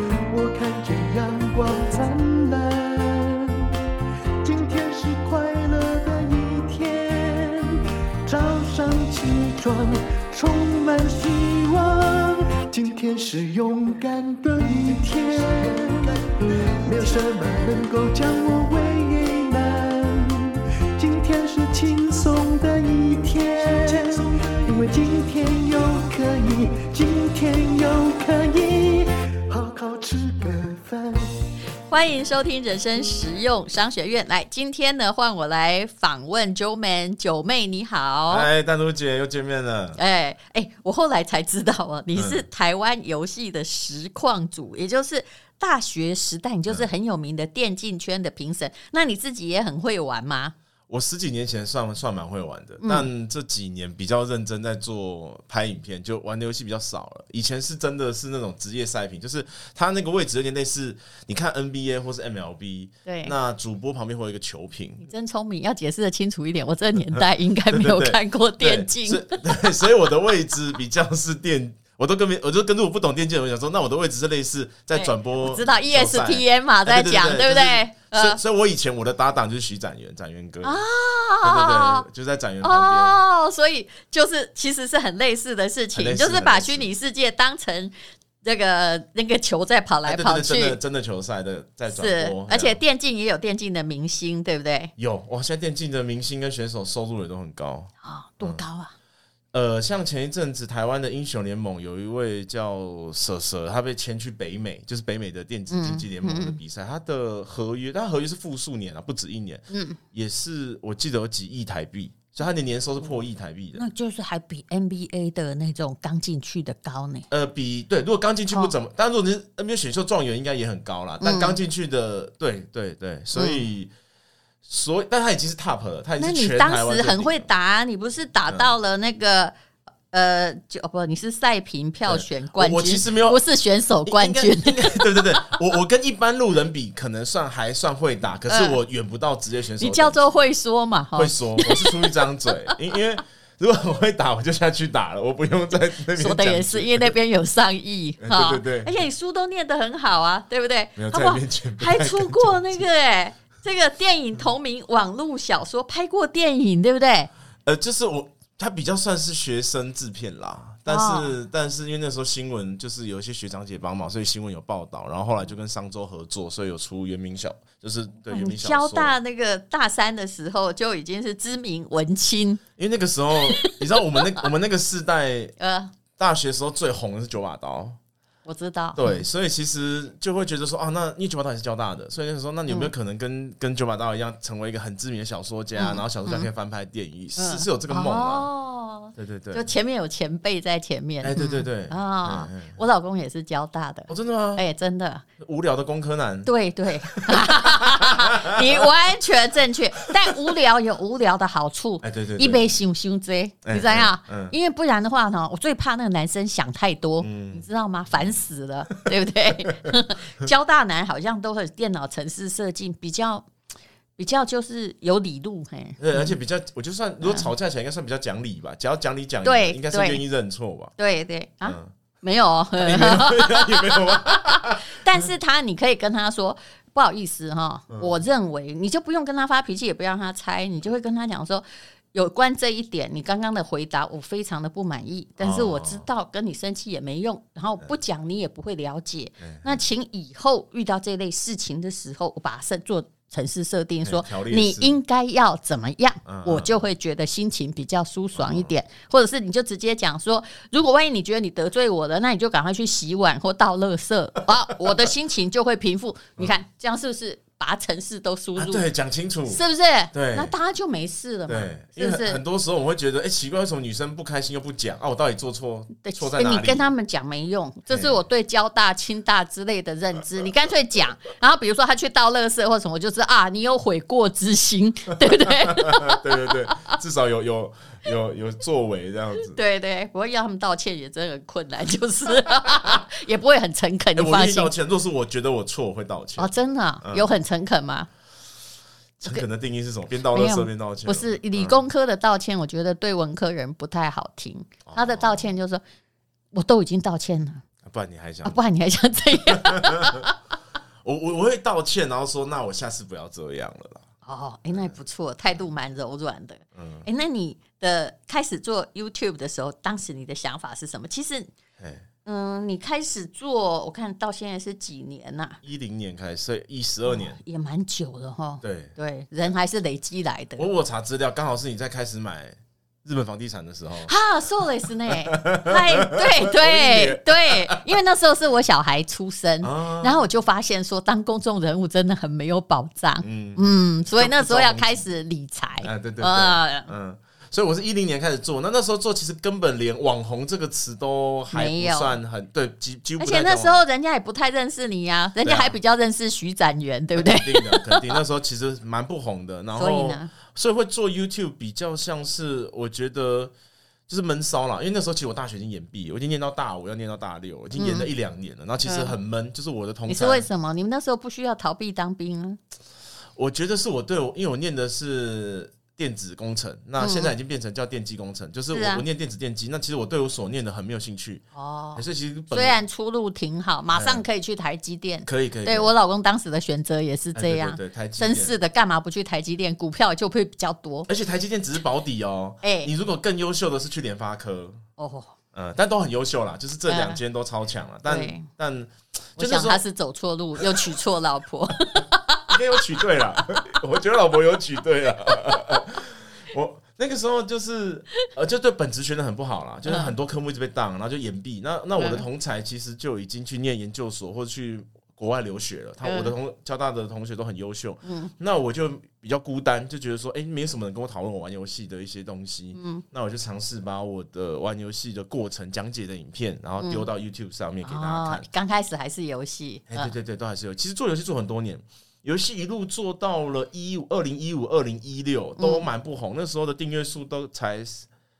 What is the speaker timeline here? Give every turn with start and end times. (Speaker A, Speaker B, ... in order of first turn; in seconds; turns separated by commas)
Speaker A: 0.3-3.8, Speaker A: 4.4-16.3, Speaker A: 16.8-31.3, Speaker B: 31.9-38.5, Speaker C: 38.3-40.0, Speaker B: 40.0-50.5, Speaker C: 42.1-42.5, Speaker C: 50.9-65.1, Speaker B: 52.8-53.1, Speaker B: 63.1-63.3, Speaker B: 65.0-69.4, Speaker C: 67.0-80.8, Speaker B: 74.9-78.4, Speaker B: 80.6-82.1, Speaker C: 81.4-83.2, Speaker B: 82.6-90.8, Speaker C: 86.0-86.9, Speaker C: 90.0-92.8, Speaker B: 91.9-94.9, Speaker C: 95.0-97.9, Speaker B: 98.0-98.9, Speaker C: 99.5-113.9, Speaker B: 105.7-106.6, Speaker B: 109.7-110.0, Speaker B: 113.8-117.3, Speaker C: 117.3-123.9, Speaker B: 121.2-121.6, Speaker B: 123.3-123.7, Speaker C: 124.7-127.5, Speaker B: 126.2-129.6, Speaker B: 130.1-135.1, Speaker C: 132.1-133.4, Speaker C: 134.1-140.2, Speaker B: 138.5-138.8, Speaker B: 139.8-142.2, Speaker C: 141.2-147.2, Speaker B: 146.1-157.3, Speaker C: 148.2-148.9, Speaker C: 151.0-152.8, Speaker C: 157.7-169.1, Speaker B: 160.9-161.3, Speaker B: 168.3-172.6, Speaker C: 172.8-175.6, Speaker B: 173.5-173.8, Speaker B: 175.6-175.9, Speaker C: 176.2-178.0, Speaker B: 178.5-179.2, Speaker C: 178.9-188.5, Speaker B: 185.8-186.5, Speaker B: 187.4-195.2, Speaker C: 189.2-189.7, Speaker C: 191.2-192.8, Speaker C: 194.1-194.6, Speaker C: 195.4-196.5, Speaker B: 196.4-213.5, Speaker C: 197.1-198.8, Speaker C: 202.0-202.7, Speaker C: 203.6-204.5, Speaker C: 207.2-208.4, Speaker B: 214.2-216.3, Speaker C: 216.0-220.9, Speaker B: 217.2-217.5, Speaker B: 219.4-220.2, Speaker B: 221.0-258.9, Speaker C: 221.6-221.9, Speaker C: 222.8-225.0, Speaker C: 235.4-236.1, Speaker C: 239.4-239.8, Speaker C: 244.0-245.0, Speaker C: 246.3-246.8, Speaker C: 248.3-248.7, Speaker C: 258.6-259.6, Speaker B: 259.5-262.4, Speaker C: 260.1-260.5, Speaker C: 261.5-266.9, Speaker B: 266.0-277.0, Speaker C: 267.9-268.1, Speaker C: 275.2-279.6, Speaker B: 279.4-284.7, Speaker C: 282.7-283.0, Speaker C: 284.2-287.3, Speaker B: 286.4-288.1, Speaker C: 289.2-291.8, Speaker B: 290.3-295.8, Speaker C: 294.9-295.5, Speaker B: 296.5-297.6, Speaker C: 297.9-298.6, Speaker B: 298.4-300.4, Speaker C: 299.5-300.3, Speaker C: 301.0-304.1, Speaker B: 304.2-311.5, Speaker C: 306.8-307.1, Speaker C: 311.8-312.1, Speaker B: 312.2-315.6, Speaker C: 315.6-317.4, Speaker B: 317.1-320.7, Speaker C: 318.6-318.9, Speaker C: 320.6-324.1, Speaker B: 324.1-336.9, Speaker C: 325.1-327.8, Speaker C: 329.6-330.3, Speaker C: 333.2-335.1, Speaker C: 335.8-343.8, Speaker B: 341.5-342.2, Speaker B: 343.2-348.2, Speaker C: 345.4-345.8, Speaker C: 347.2-353.5, Speaker B: 349.8-350.3, Speaker C: 354.1-360.5, Speaker B: 357.8-358.1, Speaker B: 358.8-359.1, Speaker B: 360.1-362.6, Speaker C: 363.4-371.4, Speaker B: 367.0-367.3, Speaker B: 368.7-369.1, Speaker B: 371.6-381.1, Speaker C: 372.0-372.8, Speaker C: 373.9-374.2, Speaker C: 375.3-375.9, Speaker C: 377.4-378.6, Speaker C: 381.1-384.8, Speaker B: 382.6-382.9, Speaker B: 385.0-385.4, Speaker C: 385.5-389.8, Speaker B: 386.9-387.2, Speaker B: 388.1-388.5, Speaker B: 389.4-393.6, Speaker C: 390.6-390.9, Speaker C: 392.5-418.5, Speaker B: 399.9-400.1, Speaker B: 402.0-402.2, Speaker B: 406.0-406.3, Speaker B: 408.1-408.3, Speaker B: 412.8-413.0, Speaker B: 416.8-417.1, Speaker B: 417.8-420.1, Speaker C: 419.9-428.1, Speaker B: 425.6-425.9